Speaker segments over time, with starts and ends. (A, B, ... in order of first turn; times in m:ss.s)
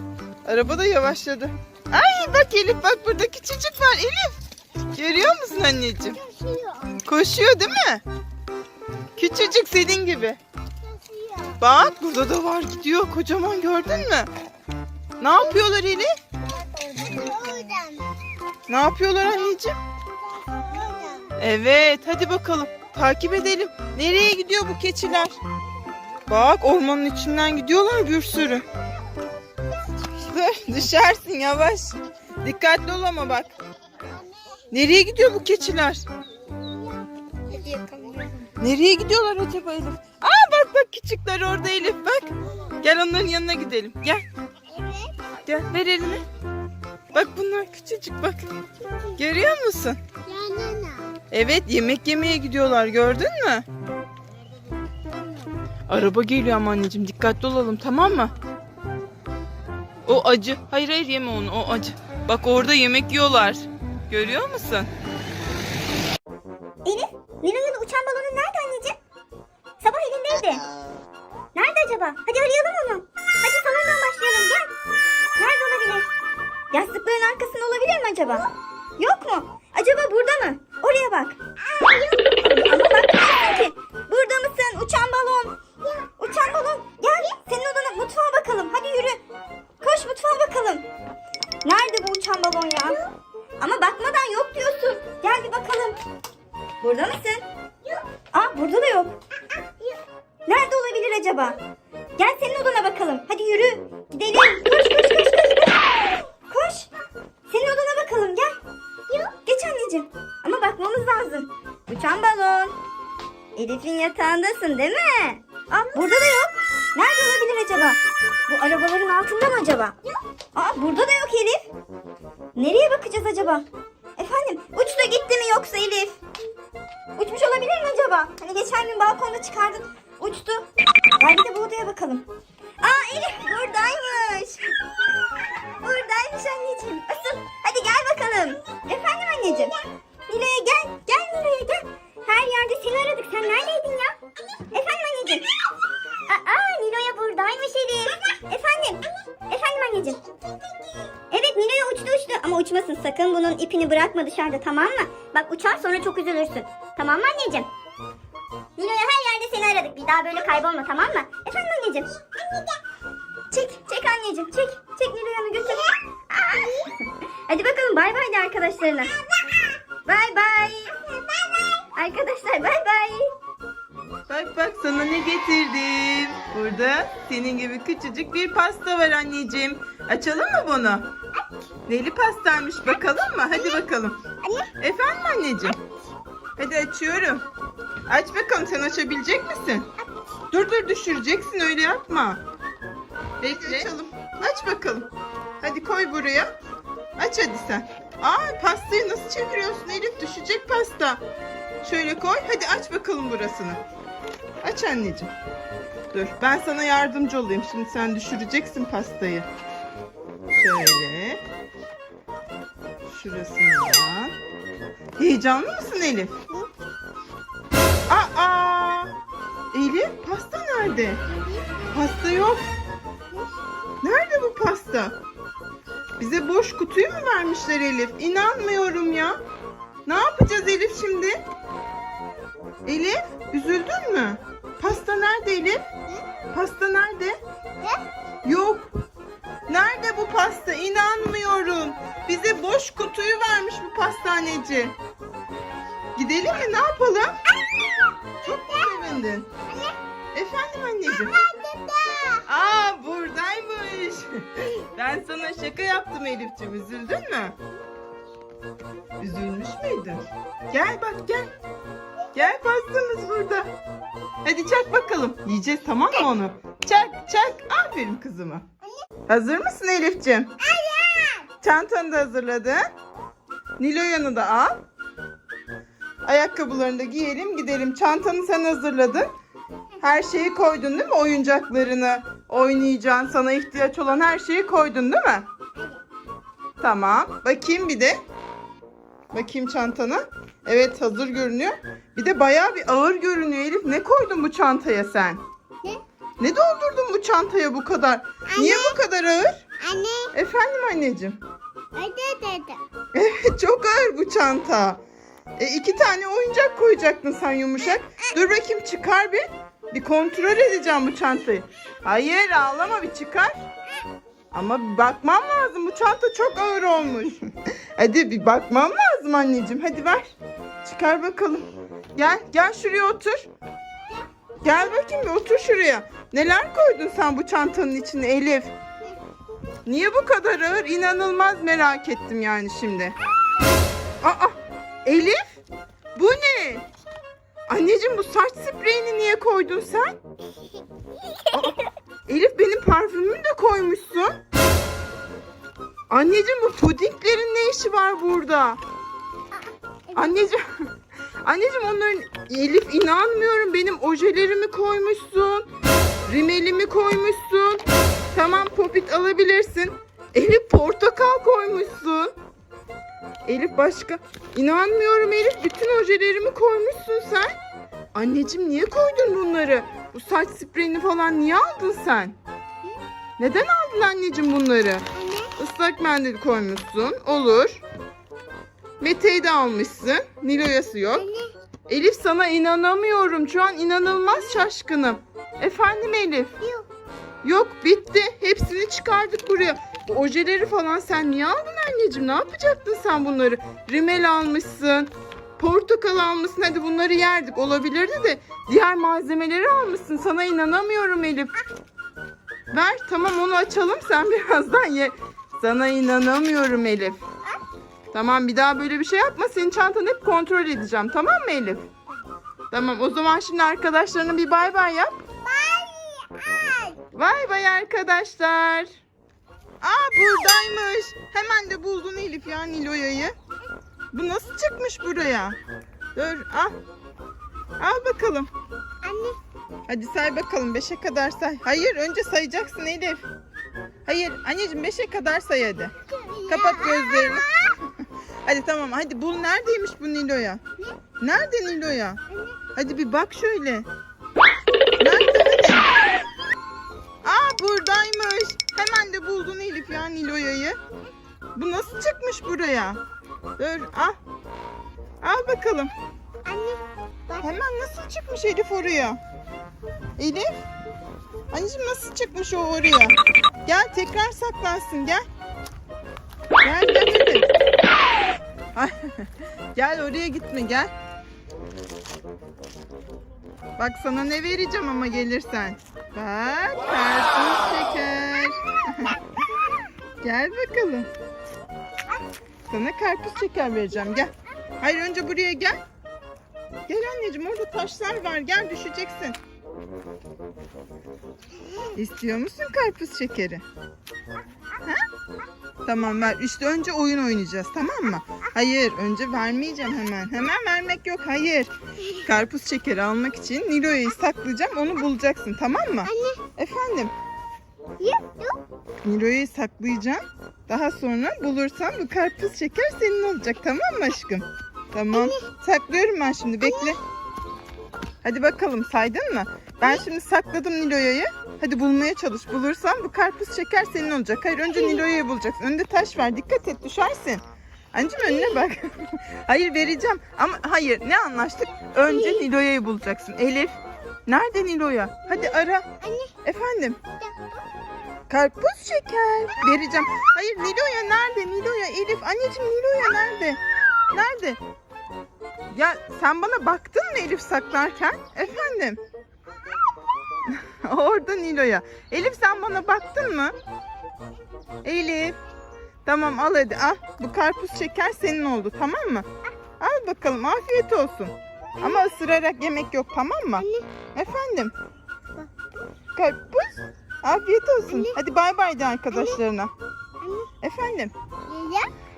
0:00.4-0:04.4 A
0:04.9-0:06.2 A
0:06.2-0:07.0 B
0:07.0-0:08.0 A
0:09.2-0:10.4 A
0:10.9-0:11.6 B
0:11.6-0:14.3 A
0:15.2-0:16.1 A
0:16.5-0:18.1 B
0:18.7-0:19.8 A
0:20.5-0:21.3 B
0:21.4-0:25.4 A
0:26.3-0:28.6 A
0:30.3-0:33.5 A
0:34.7-0:36.0 A
0:36.5-0:38.5 B
0:38.6-0:44.2 A
0:44.7-0:45.1 B
0:45.4-0:46.2 A
0:47.1-0:48.4 A
0:49.2-0:50.0 A
0:50.2-0:51.2 B
0:51.3-0:53.6 A
0:55.9-0:58.3 A
1:00.0-1:04.9 A
1:06.8-1:09.0 C
1:09.8-1:10.6 C
1:11.5-1:14.7 C
1:15.4-1:16.1 C
1:16.7-1:21.4 C
1:21.6-1:22.4 B
1:22.4-1:25.6 C
1:25.8-1:26.1 B
1:26.2-1:29.2 C
1:29.8-1:30.8 C
1:31.6-1:33.0 C
1:33.6-1:36.0 C
1:36.8-1:37.5 C
1:38.3-1:39.1 C
1:39.6-1:40.0 B
1:40.4-1:41.6 C
1:42.2-1:45.8 C
1:46.5-1:46.9 C
1:47.5-1:48.5 C
1:49.1-1:49.4 B
1:49.4-1:52.8 C
1:53.6-2:00.0 C
2:00.5-2:01.7 C
2:02.5-2:03.6 C
2:04.2-2:06.2 C
2:07.2-2:10.6 C
2:11.2-2:12.3 C
2:12.8-2:14.7 C
2:15.7-2:19.7 C
2:20.3-2:24.1 C
2:24.7-2:25.5 C
2:26.2-2:30.2 C
2:31.3-2:37.7 C
2:38.8-2:42.1 C
2:43.5-2:46.9 C
2:47.5-2:49.1 C
2:50.0-2:51.0 C
2:51.3-2:51.7 B
2:51.9-2:53.3 C
2:54.3-3:01.1 A
3:01.9-3:04.2 A
3:03.5-3:03.8 B
3:04.4-3:04.7 B
3:04.8-3:05.8 A
3:06.6-3:07.4 A
3:08.1-3:09.9 A
3:10.5-3:12.4 A
3:13.4-3:16.5 A
3:17.2-3:21.2 A
3:21.8-3:23.8 A
3:24.6-3:25.3 A
3:26.1-3:29.5 A
3:30.5-3:31.4 A
3:33.1-3:34.3 A
3:35.2-3:36.4 A
3:38.1-3:39.1 A
3:39.7-3:41.2 A
3:41.9-3:42.7 A
3:44.0-3:45.2 A
3:46.2-3:49.4 A
3:50.0-3:51.4 A
3:52.8-3:55.8 A
3:56.5-3:57.4 A
3:58.4-3:58.9 A
3:59.7-4:05.0 A
4:06.2-4:07.4 A
4:08.4-4:09.5 A
4:08.7-4:08.9 B
4:09.7-4:10.0 B
4:10.3-4:11.3 A
4:11.2-4:12.4 B
4:12.4-4:17.6 A
4:19.2-4:21.5 A
4:22.3-4:23.7 A
4:24.4-4:28.6 A
4:29.3-4:30.5 A
4:30.6-4:31.5 B
4:31.6-4:32.8 A
4:33.8-4:34.8 A
4:36.2-4:39.3 A
4:40.0-4:45.5 A
4:46.8-4:48.2 A
4:49.3-4:55.4 A
4:56.4-4:59.6 A
4:58.5-4:59.0 B
4:59.8-5:00.3 B
5:00.3-5:01.4 A
5:01.9-5:02.8 B
5:03.1-5:05.0 A
5:05.6-5:13.5 A
5:14.5-5:23.5 A
5:24.6-5:28.7 A
5:29.8-5:33.2 A
5:34.2-5:35.4 A
5:36.1-5:36.8 A
5:37.7-5:40.1 A
5:41.5-5:44.4 A
5:46.1-5:48.8 A
5:50.1-5:50.8 A
5:51.4-5:55.7 A
5:56.3-6:02.3 A
6:03.4-6:07.6 A
6:08.1-6:12.4 A
6:13.4-6:17.8 A
6:15.2-6:15.5 B
6:19.0-6:21.3 A
6:21.2-6:21.5 B
6:21.9-6:26.5 A
6:26.6-6:26.9 B
6:27.4-6:41.5 A
6:42.7-6:47.2 A
6:48.1-6:51.9 A
6:52.7-6:55.1 A
6:55.4-6:57.0 B
6:57.1-6:58.9 A
6:59.8-7:03.3 A
7:04.1-7:05.6 A
7:06.2-7:06.7 A
7:07.8-7:08.5 A
7:09.0-7:09.4 B
7:09.9-7:13.2 A
7:14.0-7:15.9 A
7:16.1-7:17.8 B
7:16.5-7:17.5 A
7:18.4-7:20.6 A
7:21.2-7:22.2 A
7:22.3-7:22.6 B
7:22.8-7:23.9 A
7:25.0-7:25.9 A
7:27.2-7:30.8 A
7:31.5-7:33.0 A
7:33.6-7:34.2 A
7:35.2-7:35.9 A
7:36.4-7:37.5 B
7:37.4-7:39.2 A
7:40.2-7:40.6 A
7:41.5-7:45.2 A
7:46.6-7:47.5 A
7:48.7-7:50.9 A
7:53.8-7:59.2 A
8:00.2-8:01.1 A
8:02.7-8:05.8 A
8:06.9-8:09.4 A
8:11.9-8:13.6 A
8:15.8-8:21.7 A
8:22.2-8:27.1 A
8:26.0-8:26.4 B
8:28.0-8:28.6 B
8:29.0-8:37.0 A
8:35.1-8:35.4 B
8:36.6-8:37.0 B
8:38.2-8:47.4 A
8:47.9-8:55.8 A
8:48.2-8:48.6 B
8:52.1-8:52.4 B
8:55.4-8:56.3 B
8:56.4-8:57.0 A
8:57.2-8:57.6 B
8:58.3-9:03.6 A
9:04.1-9:04.6 A
9:05.7-9:09.0 A
9:10.5-9:13.6 A
9:14.8-9:15.4 A
9:16.0-9:19.2 A
9:19.8-9:24.7 A
9:23.6-9:23.9 B
9:26.2-9:29.7 A
9:27.9-9:28.2 B
9:29.1-9:29.4 B
9:30.2-9:30.5 B
9:30.6-9:31.1 A
9:31.5-9:31.9 B